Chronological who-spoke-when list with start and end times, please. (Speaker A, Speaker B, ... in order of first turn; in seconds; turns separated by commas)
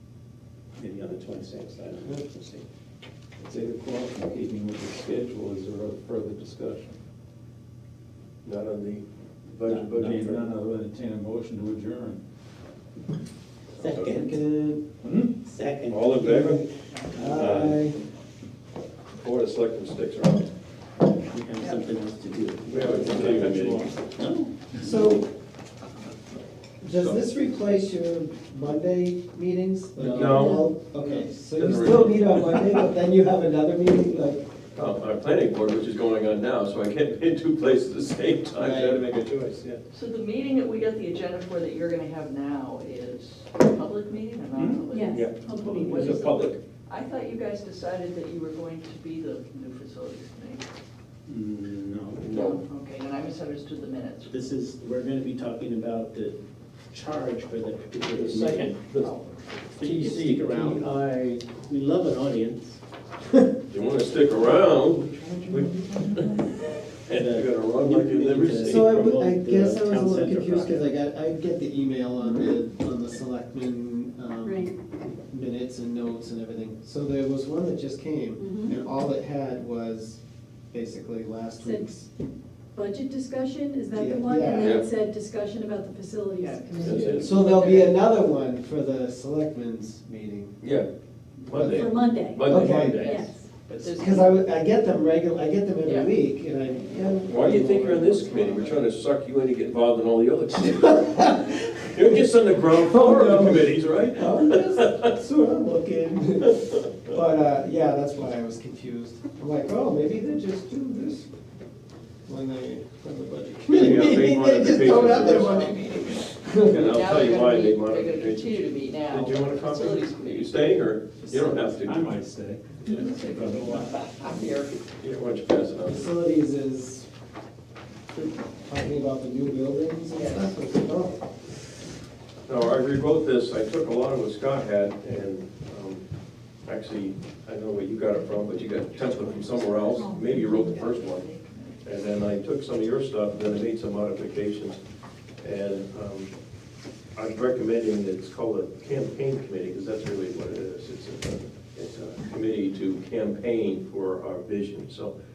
Speaker A: 0.8-2.6, Speaker B: 3.4-7.0, Speaker C: 8.4-10.2, Speaker A: 9.7-10.6, Speaker B: 10.0-12.2, Speaker C: 13.8-14.2, Speaker A: 13.8-14.4, Speaker D: 14.0-14.8, Speaker B: 15.0-15.3, Speaker A: 15.4-17.8, Speaker C: 15.9-16.7, Speaker E: 16.9-17.3, Speaker D: 17.1-18.0, Speaker C: 17.3-17.7, Speaker C: 19.2-20.5, Speaker A: 21.3-24.5, Speaker C: 22.7-23.9, Speaker D: 24.8-25.3, Speaker D: 26.8-34.5, Speaker C: 26.9-27.2, Speaker A: 30.0-30.4, Speaker C: 30.1-30.6, Speaker F: 30.4-30.7, Speaker E: 31.0-31.3, Speaker C: 31.6-32.8, Speaker C: 34.8-39.8, Speaker D: 38.6-39.0, Speaker E: 39.9-50.6, Speaker A: 44.6-44.8, Speaker F: 44.9-46.3, Speaker C: 45.1-46.6, Speaker A: 51.3-52.2, Speaker C: 52.2-52.6, Speaker E: 52.3-54.4, Speaker A: 54.3-56.4, Speaker A: 56.9-58.8, Speaker C: 58.1-59.1, Speaker E: 59.0-59.4, Speaker A: 59.8-60.9, Speaker C: 59.8-61.5, Speaker A: 61.5-62.8, Speaker C: 63.7-66.4, Speaker C: 67.1-69.0, Speaker A: 67.1-70.8, Speaker D: 68.6-80.2, Speaker F: 74.4-74.7, Speaker F: 78.4-78.8, Speaker D: 80.7-82.1, Speaker F: 81.6-81.9, Speaker F: 82.8-87.0, Speaker D: 84.0-84.8, Speaker C: 84.5-84.8, Speaker E: 86.4-88.0, Speaker C: 86.8-87.3, Speaker A: 86.9-87.2, Speaker D: 87.0-90.6, Speaker C: 90.6-90.9, Speaker D: 91.4-93.0, Speaker C: 91.5-93.3, Speaker F: 91.6-93.5, Speaker E: 92.9-94.4, Speaker D: 93.7-98.9, Speaker E: 95.8-96.1, Speaker C: 97.3-101.3, Speaker D: 100.6-111.3, Speaker C: 101.9-105.1, Speaker C: 106.5-106.8, Speaker D: 112.3-117.1, Speaker C: 113.7-115.8, Speaker C: 116.7-122.1, Speaker E: 116.8-120.6, Speaker D: 121.3-121.7, Speaker B: 121.8-124.0, Speaker E: 122.8-124.8, Speaker C: 124.9-126.1, Speaker D: 125.8-127.1, Speaker D: 128.6-131.2, Speaker E: 130.1-130.5, Speaker C: 132.5-136.0, Speaker C: 136.7-141.3, Speaker E: 139.0-141.8, Speaker C: 141.8-144.8, Speaker C: 145.4-146.3, Speaker C: 147.2-155.1